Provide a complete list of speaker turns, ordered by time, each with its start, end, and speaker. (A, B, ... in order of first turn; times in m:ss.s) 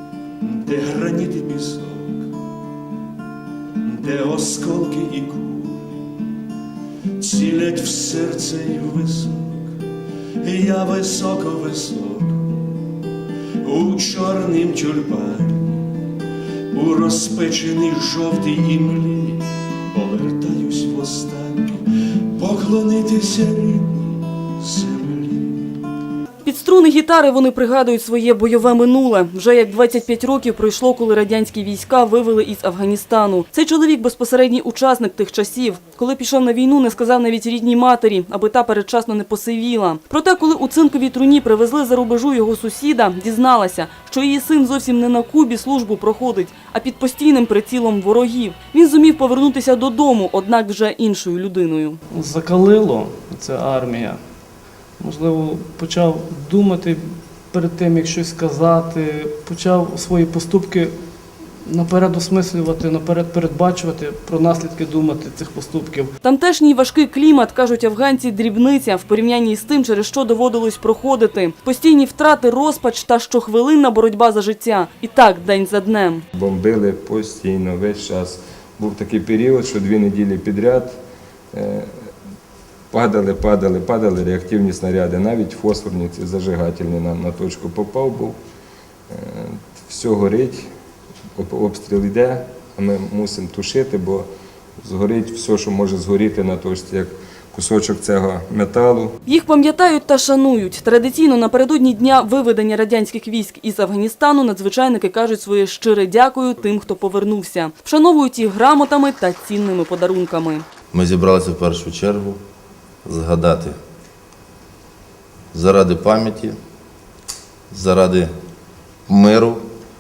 0:00.6-0:02.2 A
0:04.0-0:05.9 A
0:07.2-0:09.6 A
0:10.4-0:12.5 A
0:13.6-0:15.8 A
0:16.7-0:25.7 A
0:26.4-0:52.0 B
0:52.1-1:06.1 C
1:06.2-1:16.2 B
1:16.3-1:21.0 D
1:21.5-1:21.9 D
1:22.9-1:28.4 D
1:29.1-1:30.7 D
1:31.4-1:34.3 D
1:34.8-1:39.1 D
1:39.3-1:50.6 B
1:50.9-1:52.4 E
1:53.0-1:53.8 E
1:55.5-1:56.6 E
1:57.7-1:58.3 E
1:59.1-1:59.6 E